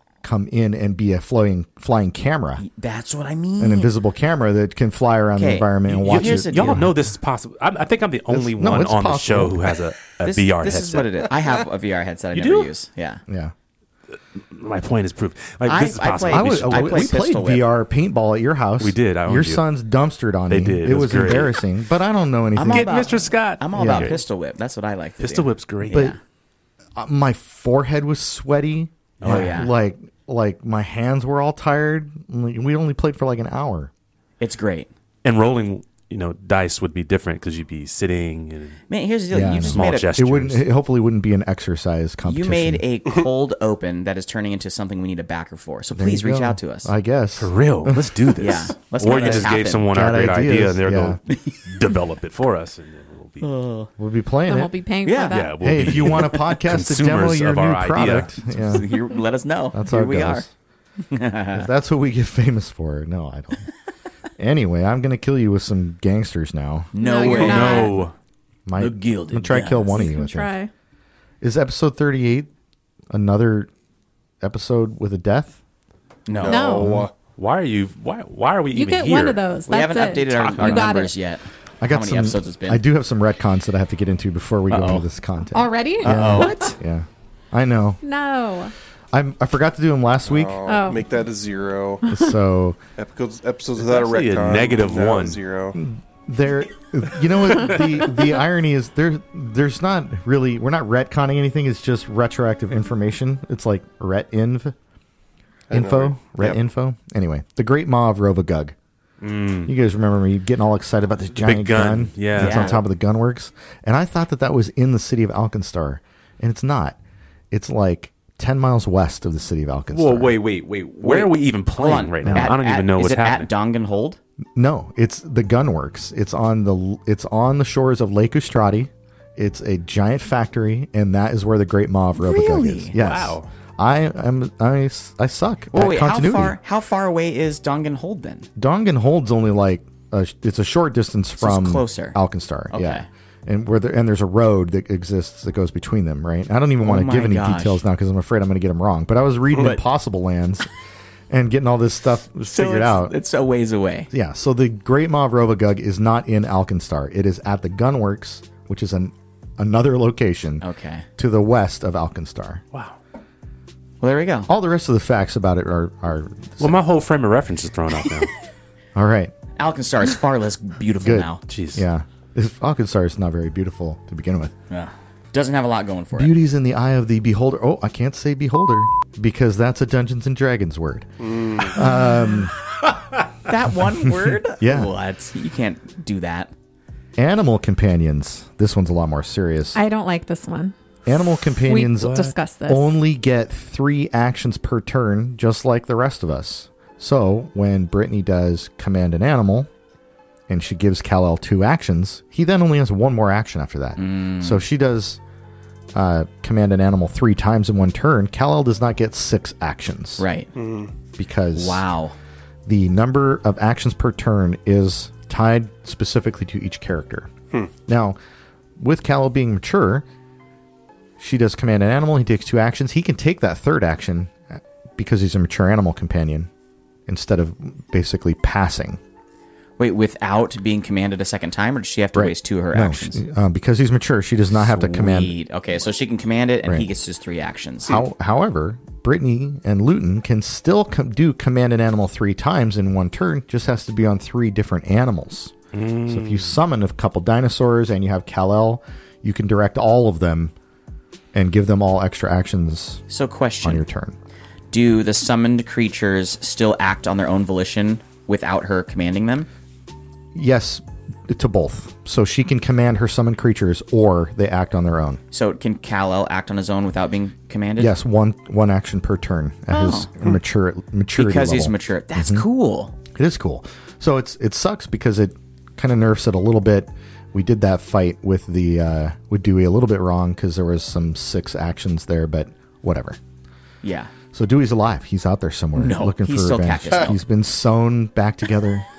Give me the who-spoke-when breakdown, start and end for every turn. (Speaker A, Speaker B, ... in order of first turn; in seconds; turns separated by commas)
Speaker A: 0.2-2.6, Speaker B: 2.6-3.9, Speaker A: 3.6-6.9, Speaker B: 5.4-6.9, Speaker C: 5.9-11.1, Speaker A: 8.3-9.7, Speaker B: 10.2-13.2, Speaker C: 12.3-12.7, Speaker C: 14.3-17.1, Speaker B: 15.6-17.6, Speaker A: 16.3-22.9, Speaker C: 18.8-19.6, Speaker C: 20.5-21.6, Speaker C: 22.6-24.2, Speaker B: 22.6-26.2, Speaker A: 23.7-24.1, Speaker C: 25.2-26.1, Speaker A: 27.0-33.9, Speaker B: 29.2-29.7, Speaker C: 29.2-29.6, Speaker B: 34.4-34.9, Speaker C: 35.2-38.8, Speaker B: 38.9-40.1, Speaker A: 39.3-42.8, Speaker C: 39.6-40.7, Speaker B: 42.2-46.9, Speaker A: 46.0-48.3, Speaker C: 47.4-53.5, Speaker B: 48.4-49.9, Speaker A: 49.9-51.2, Speaker B: 51.3-51.8, Speaker B: 53.4-53.9, Speaker A: 54.0-54.7, Speaker D: 54.5-55.6, Speaker B: 55.0-56.4, Speaker C: 55.3-58.8, Speaker A: 55.6-58.9, Speaker B: 58.5-60.5, Speaker A: 59.7-60.5, Speaker B: 61.1-61.7, Speaker A: 61.5-63.7, Speaker A: 64.4-66.9, Speaker B: 66.9-68.0, Speaker D: 67.0-68.0, Speaker C: 67.2-68.2, Speaker A: 68.7-70.5, Speaker B: 68.8-70.1, Speaker D: 69.9-70.7, Speaker A: 71.4-72.5, Speaker A: 73.1-73.7, Speaker A: 74.4-75.6, Speaker B: 76.3-76.7, Speaker E: 76.3-77.1, Speaker D: 76.5-76.9, Speaker A: 76.8-77.1, Speaker C: 77.4-79.4, Speaker D: 78.7-81.1, Speaker B: 79.7-82.8, Speaker C: 80.4-80.9, Speaker A: 81.8-88.0, Speaker B: 84.7-85.1, Speaker D: 85.5-86.8, Speaker B: 86.0-86.8, Speaker D: 88.0-88.7, Speaker A: 89.1-90.6, Speaker E: 90.3-92.0, Speaker D: 90.7-91.1, Speaker A: 92.1-92.8, Speaker E: 93.0-95.8, Speaker C: 93.8-95.4, Speaker A: 95.8-104.7, Speaker E: 105.7-106.4, Speaker A: 105.7-108.8, Speaker C: 109.2-109.7, Speaker A: 109.7-117.0, Speaker C: 111.3-112.8, Speaker B: 112.3-112.8, Speaker A: 117.5-120.4, Speaker C: 119.9-123.5, Speaker B: 121.0-124.2, Speaker A: 122.2-122.5, Speaker A: 124.6-136.6, Speaker B: 132.2-132.9, Speaker C: 132.9-133.5, Speaker B: 135.7-138.5, Speaker A: 138.6-150.7, Speaker B: 141.4-142.2, Speaker B: 142.7-143.1, Speaker B: 146.8-147.8, Speaker B: 149.5-149.8, Speaker A: 151.3-153.2, Speaker B: 152.4-154.1, Speaker A: 154.1-160.7, Speaker B: 160.6-161.1, Speaker A: 161.2-162.6, Speaker B: 164.0-164.5, Speaker A: 164.5-166.8, Speaker C: 166.6-168.3, Speaker A: 168.9-169.3, Speaker B: 169.6-171.4, Speaker A: 171.0-174.5, Speaker C: 171.5-171.9, Speaker B: 174.7-176.3, Speaker A: 176.1-182.5, Speaker E: 181.2-181.7, Speaker D: 181.8-182.4, Speaker B: 183.4-186.5, Speaker A: 184.2-184.9, Speaker A: 187.2-189.8, Speaker D: 189.7-190.8, Speaker A: 191.1-199.7, Speaker D: 191.7-192.9, Speaker A: 200.5-205.2, Speaker B: 204.0-204.7, Speaker A: 205.9-210.2, Speaker B: 210.2-210.5, Speaker E: 210.6-210.9, Speaker A: 211.2-211.8, Speaker B: 211.5-212.2, Speaker A: 212.7-217.3, Speaker A: 217.9-218.2, Speaker A: 218.8-220.1, Speaker A: 221.2-226.5, Speaker A: 227.1-229.0, Speaker B: 229.8-233.2, Speaker A: 232.1-235.3, Speaker B: 234.7-238.0, Speaker A: 236.7-236.9, Speaker A: 237.9-245.6, Speaker C: 245.7-246.5, Speaker A: 246.1-250.5, Speaker A: 251.3-253.0, Speaker B: 253.1-253.8, Speaker A: 253.6-254.2, Speaker B: 254.7-259.5, Speaker A: 260.4-265.2, Speaker B: 265.3-267.9, Speaker A: 267.8-272.5, Speaker B: 269.7-270.4, Speaker B: 271.1-272.9, Speaker A: 273.1-283.2, Speaker B: 283.8-284.1, Speaker A: 284.3-288.9, Speaker B: 285.8-287.2